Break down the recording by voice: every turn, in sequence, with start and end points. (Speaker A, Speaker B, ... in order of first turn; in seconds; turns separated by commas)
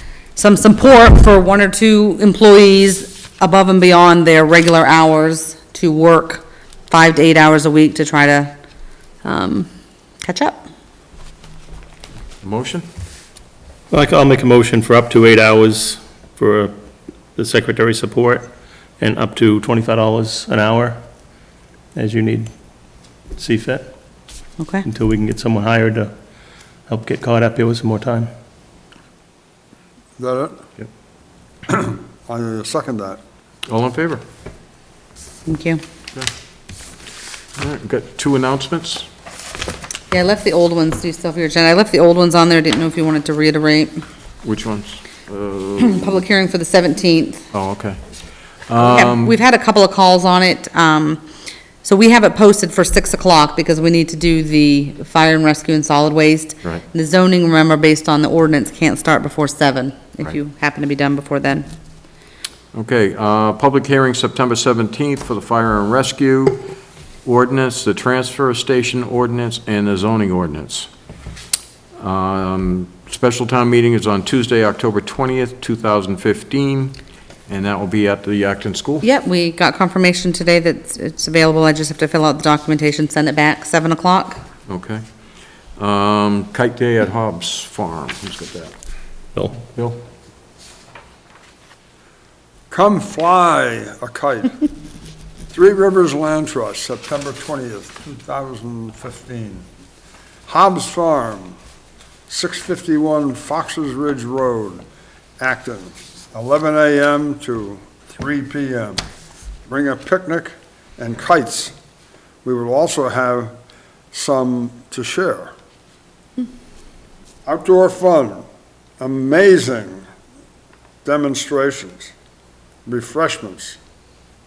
Speaker A: 0.4-8.5, Speaker A: 9.2-9.7, Speaker A: 10.2-10.6, Speaker B: 12.4-12.8, Speaker C: 13.9-16.7, Speaker C: 17.4-18.5, Speaker C: 19.0-21.0, Speaker C: 21.9-22.5, Speaker C: 23.4-23.9, Speaker A: 24.6-24.9, Speaker C: 24.8-26.1, Speaker C: 26.9-28.3, Speaker D: 30.2-30.6, Speaker D: 31.7-33.2, Speaker B: 33.7-34.2, Speaker A: 35.5-35.8, Speaker B: 37.6-39.1, Speaker A: 40.1-44.0, Speaker B: 44.4-46.2, Speaker A: 45.8-47.4, Speaker B: 47.5-48.0, Speaker B: 48.7-49.4, Speaker A: 48.8-51.2, Speaker A: 51.8-61.7, Speaker B: 62.7-66.7, Speaker B: 67.2-70.9, Speaker B: 72.0-77.0, Speaker B: 77.5-79.0, Speaker A: 79.0-84.4, Speaker B: 84.7-85.0, Speaker B: 85.8-88.7, Speaker C: 89.3-89.6, Speaker B: 89.7-90.0, Speaker D: 92.7-94.6, Speaker D: 95.5-99.7, Speaker D: 100.5-101.6, Speaker D: 102.3-104.8, Speaker D: 105.4-109.0, Speaker D: 109.7-111.7, Speaker D: 112.4-113.5, Speaker D: 114.1-115.5, Speaker D: 117.5-118.4, Speaker D: 119.0-120.0, Speaker D: 121.0-122.1, Speaker D: 122.9-123.8